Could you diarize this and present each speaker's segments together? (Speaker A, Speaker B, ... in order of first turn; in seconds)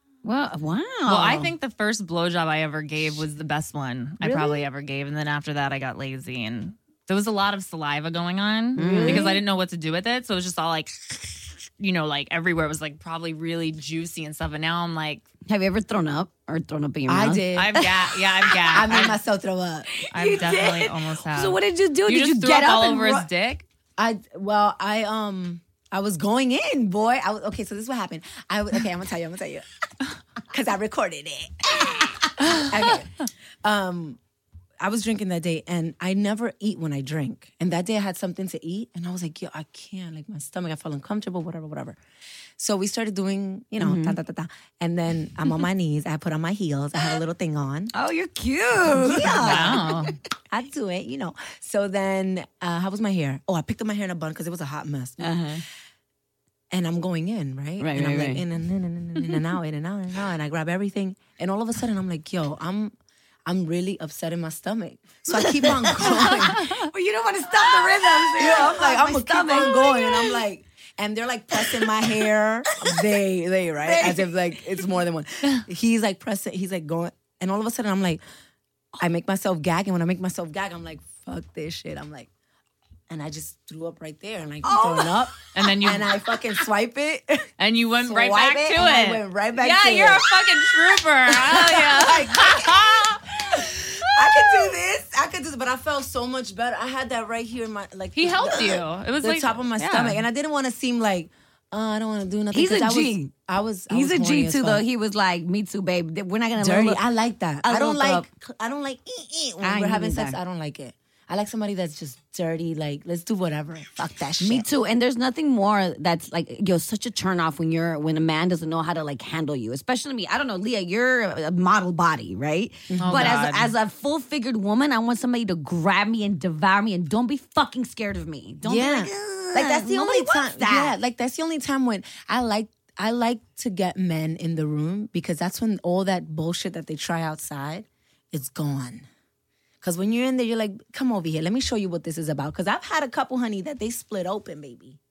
Speaker A: 0.2-1.5, 8.8-9.3, 15.5-18.7, 19.9-23.3, 43.8-44.2, 47.9-50.1, 55.2-55.6, 57.8-58.4, 65.3-70.4, 71.5-72.0, 73.8-74.6, 84.6-85.3, 102.5-103.3, 103.9-107.0, 107.6-108.3, 109.6-110.4, 114.4-130.9
Speaker B: 1.1-15.2, 17.5-19.2, 20.1-23.6, 49.4-50.1, 85.5-86.1, 87.6-94.7, 98.1-100.2, 123.0-123.7
Speaker C: 4.2-4.7, 8.8-9.4, 17.1-17.9, 18.7-19.9, 24.0-29.6, 30.5-34.2, 34.8-42.0, 42.6-47.9, 48.9-49.9, 50.5-55.4, 56.7-62.9, 63.5-66.8, 68.3-78.2, 79.0-82.3, 83.1-87.5, 88.0-104.8, 106.6-114.7, 122.9-123.4, 128.6-139.1, 139.8-145.0